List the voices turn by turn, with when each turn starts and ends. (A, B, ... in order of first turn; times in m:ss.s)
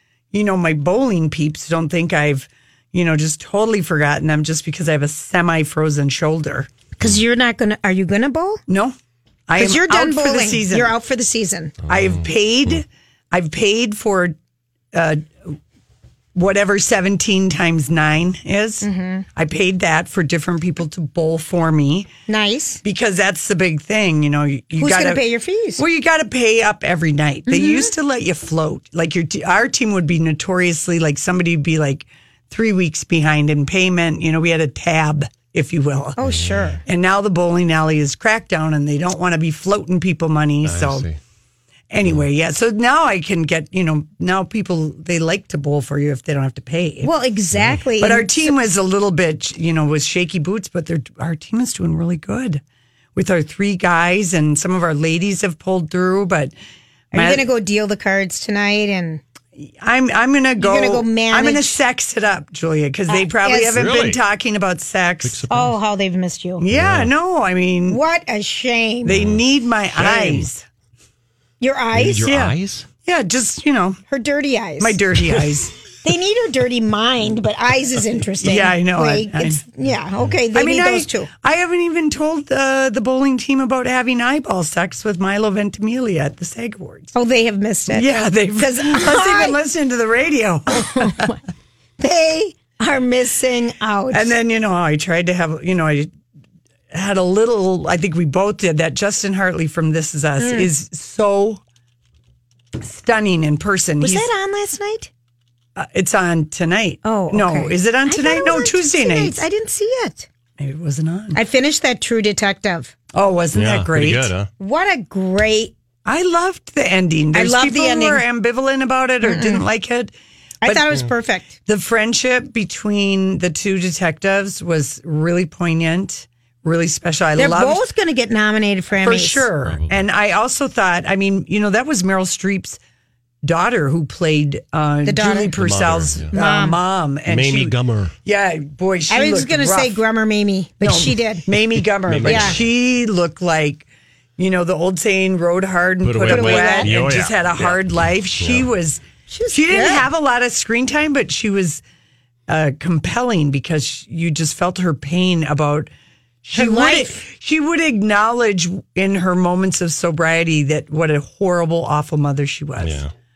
0:00.3-0:06.7 A
0:07.0-0:08.6 B
0:08.7-0:09.0 A
0:09.5-0:10.9 A
0:09.6-0:11.8 B
0:11.8-0:12.8 C
0:11.9-0:14.4 A
0:14.9-0:15.6 A
0:16.4-0:22.1 A
0:18.8-0:19.3 B
0:22.3-0:22.8 B
0:22.8-0:25.2 A
0:24.8-0:25.8 B
0:25.8-0:36.2 A
0:27.5-0:27.9 B
0:36.2-0:36.8 B
0:36.2-0:36.8 C
0:36.9-0:41.1 A
0:40.6-0:41.2 C
0:41.9-0:47.1 A
0:47.0-0:48.6 B
0:48.0-0:52.6 A
0:53.2-0:56.5 A
0:57.1-0:57.5 A
0:57.1-0:59.2 B
0:59.6-1:05.4 A
1:00.6-1:01.8 B
1:03.1-1:03.8 B
1:03.7-1:04.2 C
1:05.2-1:05.8 C
1:05.5-1:06.6 B
1:06.6-1:08.0 A
1:06.7-1:07.1 C
1:07.9-1:09.2 B
1:09.0-1:10.6 A
1:09.1-1:09.4 C
1:10.0-1:10.5 C
1:11.6-1:12.3 B
1:11.9-1:12.9 C
1:12.2-1:14.0 A
1:14.1-1:15.0 B
1:14.8-1:15.7 A
1:16.0-1:21.3 B
1:18.4-1:19.6 A
1:20.5-1:27.1 A
1:27.1-1:29.6 B
1:27.9-1:31.3 A
1:30.7-1:31.4 B
1:32.0-1:34.4 B
1:34.1-1:36.1 A
1:36.9-1:41.6 A
1:40.4-1:40.7 B
1:42.8-1:44.3 A
1:44.0-1:45.1 B
1:45.8-1:49.4 A
1:47.0-1:50.3 B
1:50.6-1:51.4 A
1:51.4-1:52.9 B
1:53.1-1:54.3 A
1:53.5-1:54.5 C
1:54.6-1:55.8 B
1:56.0-2:00.1 A
1:57.3-1:58.2 B
1:59.2-1:59.6 B
2:00.6-2:01.5 B
2:00.6-2:01.0 A
2:01.7-2:07.8 A
2:07.4-2:09.5 B
2:09.0-2:12.8 A
2:09.6-2:10.0 C
2:13.4-2:17.7 A
2:15.0-2:15.5 B
2:15.6-2:16.3 C
2:16.3-2:16.8 B
2:17.3-2:18.1 C
2:18.2-2:20.0 A
2:19.1-2:21.5 B
2:20.8-2:23.9 A
2:22.1-2:22.7 C
2:22.2-2:22.6 B
2:24.4-2:29.0 A
2:26.0-2:28.7 C
2:26.3-2:27.0 B
2:29.3-2:30.1 B
2:29.5-2:31.8 A
2:32.5-2:35.9 A
2:36.4-2:43.0 A
2:36.5-2:37.2 B
2:42.8-2:43.1 C